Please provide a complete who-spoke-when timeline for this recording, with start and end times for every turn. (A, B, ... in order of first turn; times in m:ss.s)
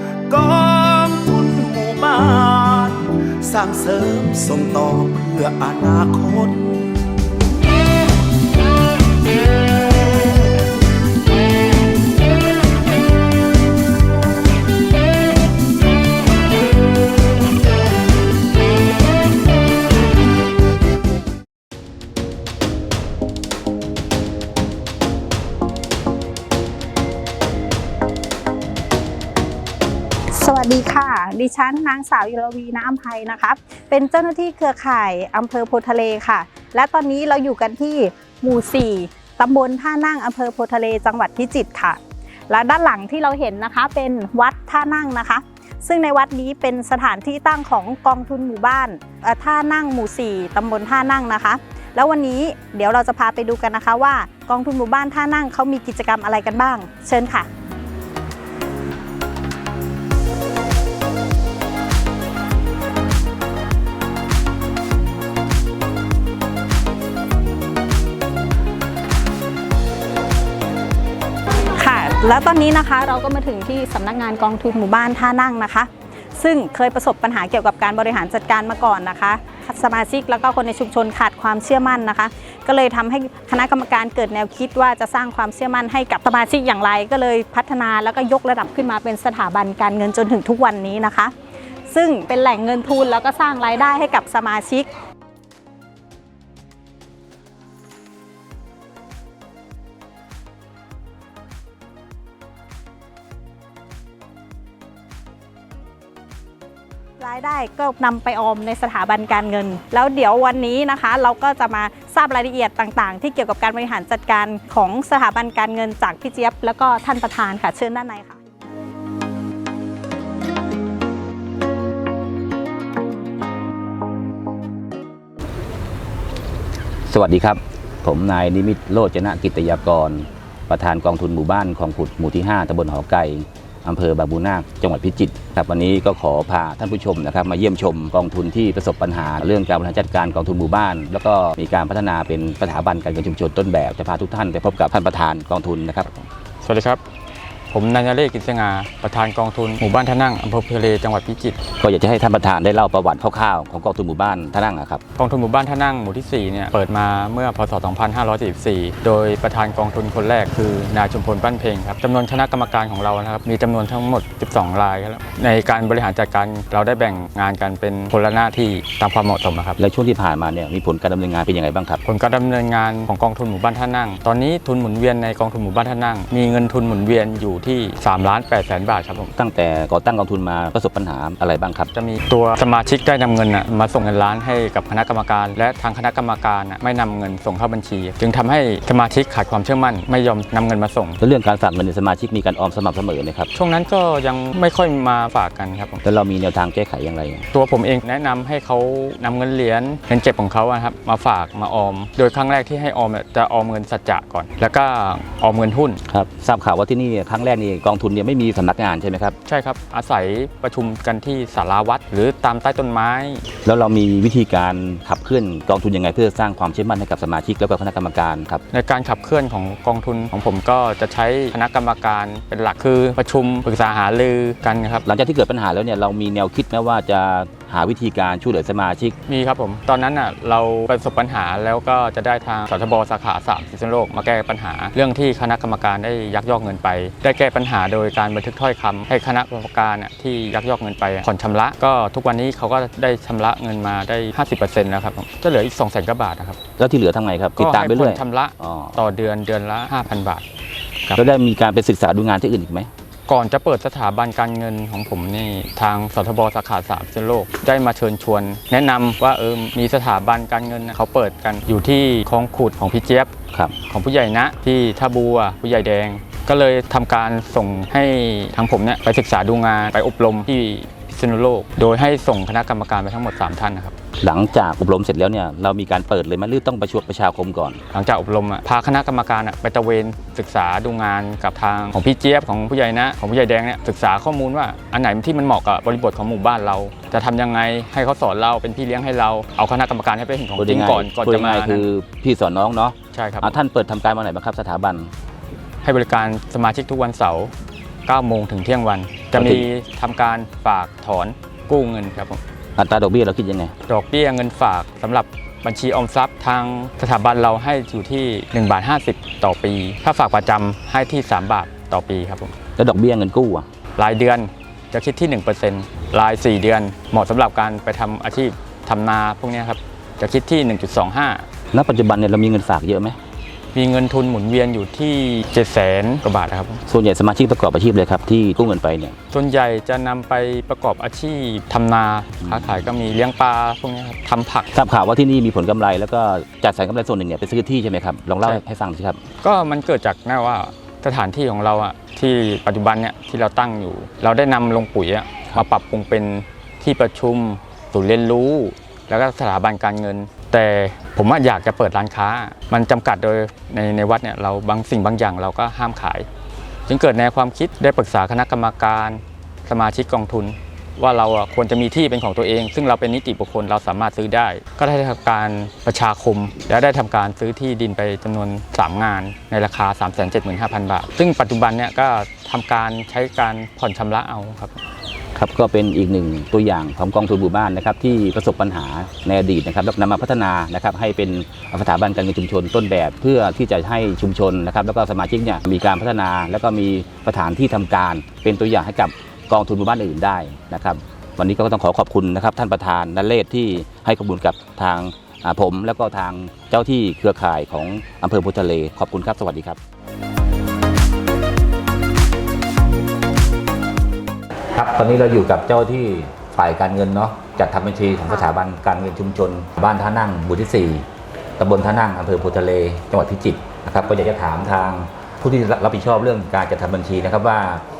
0:00.3-0:06.9 A
0:30.4-0:57.5 B
1:11.8-1:31.3 B
1:31.9-1:34.9 B
1:47.2-1:58.4 B
2:07.1-2:26.1 C
2:26.1-2:27.0 D
2:27.7-2:31.6 D
2:31.8-2:35.0 C
2:35.2-2:49.8 D
2:49.8-2:52.0 C
2:52.0-2:59.3 D
2:59.4-3:01.9 C
3:01.9-3:11.2 D
3:11.2-3:13.5 C
3:13.5-3:16.0 D
3:16.0-3:17.4 C
3:17.5-3:26.0 D
3:26.1-3:29.4 C
3:29.4-3:33.4 D
3:33.6-3:38.6 C
3:38.7-3:45.0 D
3:45.0-3:49.2 C
3:49.3-4:06.6 D
4:06.8-4:09.0 C
4:07.6-4:10.4 D
4:11.1-4:12.9 C
4:13.3-4:23.3 D
4:23.9-4:33.9 D
4:34.2-4:37.8 C
4:37.9-4:51.9 D
4:50.6-4:55.1 C
4:53.1-4:53.5 D
4:55.8-4:57.5 D
4:58.1-5:02.4 D
4:59.3-4:59.7 C
5:02.8-5:03.7 C
5:03.9-5:12.5 D
5:12.8-5:13.6 C
5:14.0-5:21.4 D
5:21.7-5:23.2 C
5:23.7-5:26.8 D
5:26.9-5:29.1 C
5:29.3-5:34.7 D
5:32.4-5:32.9 C
5:34.7-5:39.2 C
5:39.4-5:56.3 D
5:56.9-6:14.8 D
6:15.3-6:39.8 C
6:44.7-6:51.0 C
6:51.6-6:57.8 C